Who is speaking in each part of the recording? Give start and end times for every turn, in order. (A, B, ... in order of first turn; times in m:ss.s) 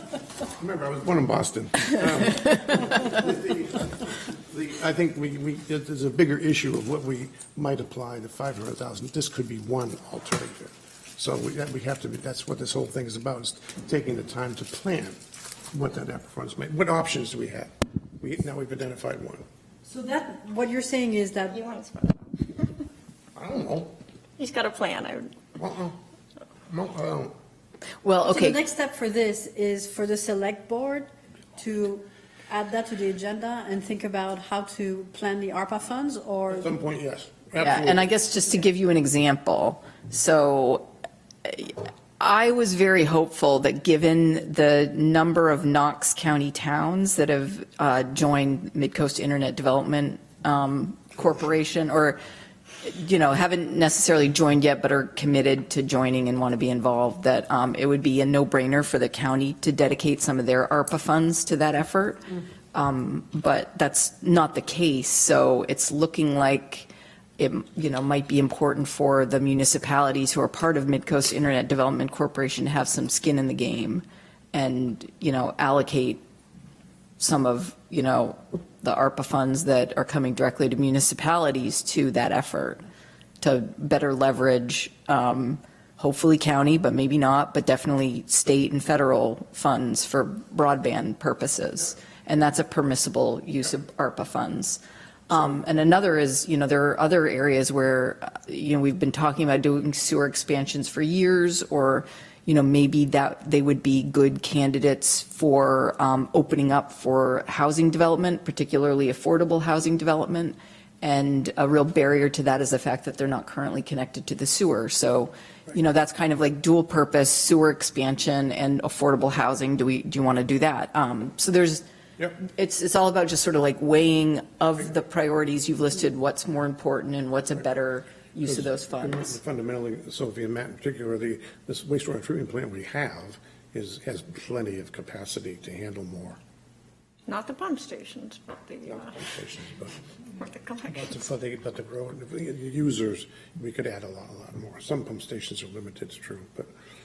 0:00.6-0:15.2 A
0:15.7-0:19.4 A
0:19.8-0:21.6 B
0:21.5-0:22.8 C
0:23.4-0:23.9 A
0:24.4-0:25.5 C
0:25.6-0:26.0 A
0:26.7-0:27.3 A
0:28.0-0:28.6 D
0:28.2-0:36.8 B
0:36.5-0:38.0 A
0:37.6-0:40.8 D
0:41.4-0:52.2 D
0:52.8-1:16.2 D
1:17.2-1:22.8 D
1:23.4-2:01.8 D
2:02.4-2:09.4 D
2:08.4-2:16.4 A
2:17.3-2:19.1 C
2:18.9-2:20.0 A
2:20.4-2:21.1 C
2:20.9-2:26.7 A